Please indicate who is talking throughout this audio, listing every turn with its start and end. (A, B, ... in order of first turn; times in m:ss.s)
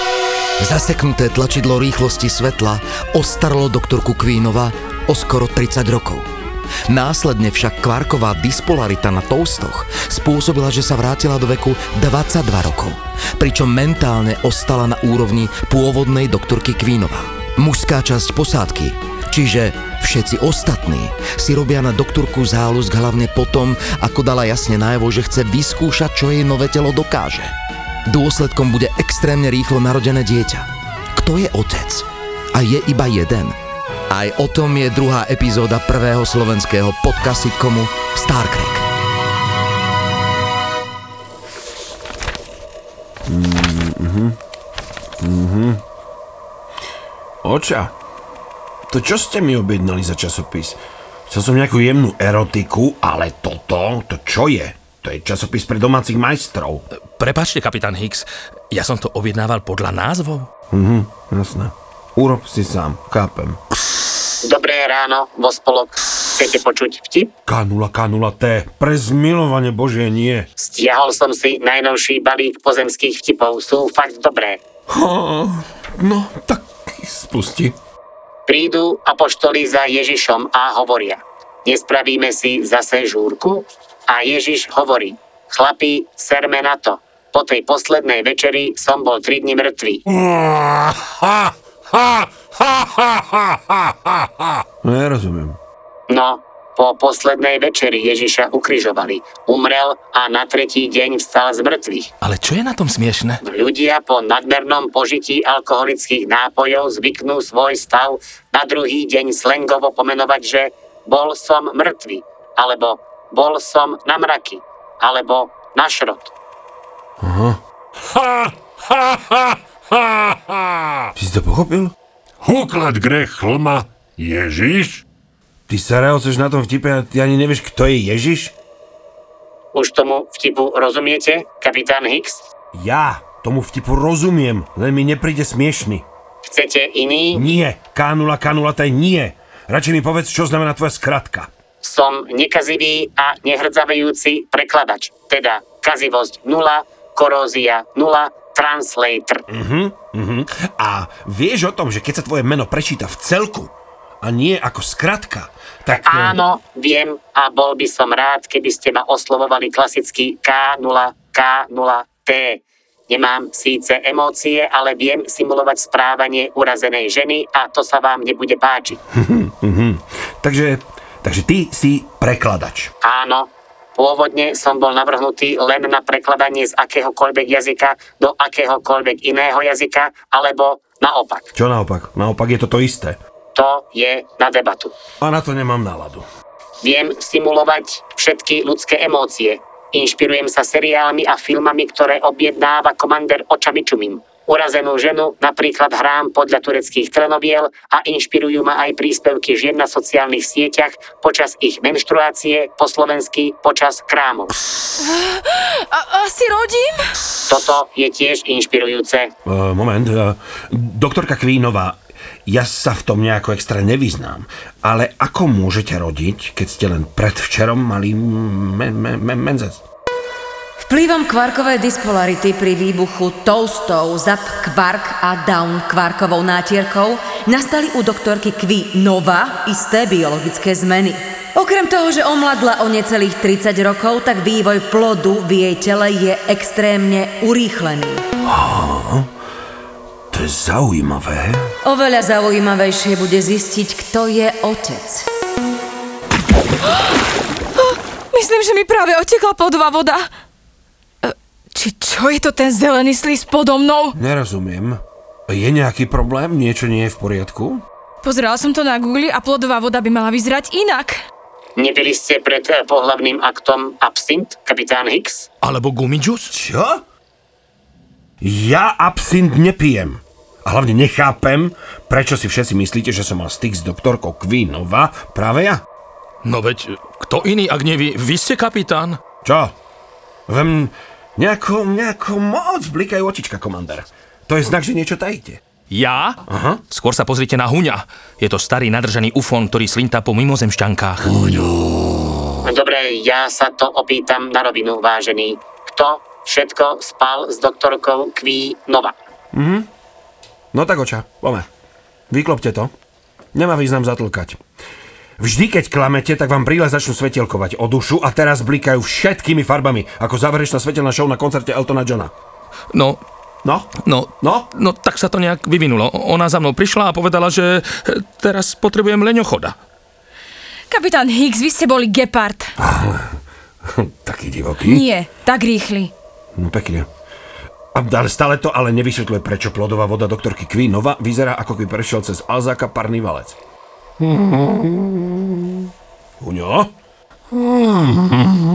0:00.6-0:06.3 A
0:06.9-0:27.5 A
0:28.1-0:33.6 A
0:34.1-0:38.8 A
0:43.3-0:44.4 B
0:45.2-0:45.8 B
0:47.4-0:47.9 B
0:48.9-0:56.8 B
0:57.2-1:00.5 C
1:00.7-1:03.6 B
1:04.4-1:07.3 D
1:07.5-1:10.5 B
1:10.6-1:14.6 D
1:14.9-1:17.8 B
1:18.5-1:30.0 D
1:30.2-1:31.3 E
1:32.8-1:33.5 E
1:34.8-1:35.6 B
1:36.1-1:42.1 D
1:42.2-1:43.4 C
1:43.4-1:56.3 D
1:57.2-1:57.6 B
1:58.1-2:00.7 E
2:01.2-2:01.9 B
2:02.4-2:05.0 E
2:05.7-2:08.6 B
2:09.7-2:12.4 D
2:12.7-2:16.1 B
2:16.4-2:17.5 D
2:17.3-2:21.5 B
2:21.8-2:29.4 D
2:29.5-2:36.4 B
2:35.9-2:49.0 D
2:49.2-2:52.9 B
2:53.0-3:01.5 D
3:01.6-3:03.2 B
3:03.5-3:04.9 D
3:05.2-3:06.2 B
3:06.8-3:24.5 D
3:25.0-3:27.1 F
3:27.5-3:29.3 D
3:29.5-3:39.8 B
3:40.8-3:58.3 G
3:58.4-3:59.3 B
4:00.3-4:01.7 B
4:01.8-4:05.3 G
4:06.9-4:07.2 F
4:07.8-4:10.3 F
4:11.2-4:14.2 F
4:14.2-4:17.8 B
4:18.2-4:21.2 F
4:21.8-4:25.5 D
4:25.6-4:26.5 C
4:26.5-4:27.0 B
4:28.4-4:35.8 B
4:36.4-4:39.2 C
4:39.4-4:39.7 B
4:40.5-4:45.6 B
4:45.9-4:51.6 C
4:46.5-4:46.8 B
4:52.6-4:59.1 D
4:59.5-4:59.9 B
5:00.7-5:01.7 B
5:02.3-5:02.9 B
5:03.5-5:04.6 B
5:05.4-5:12.3 B
5:12.9-5:13.2 C
5:13.6-5:14.7 B
5:14.0-5:19.8 C
5:20.9-5:22.7 F
5:22.8-5:25.0 B
5:24.8-5:26.1 F
5:26.6-5:27.1 B
5:27.9-5:33.6 B
5:34.7-5:35.0 B
5:36.4-5:36.9 B
5:37.5-5:38.0 B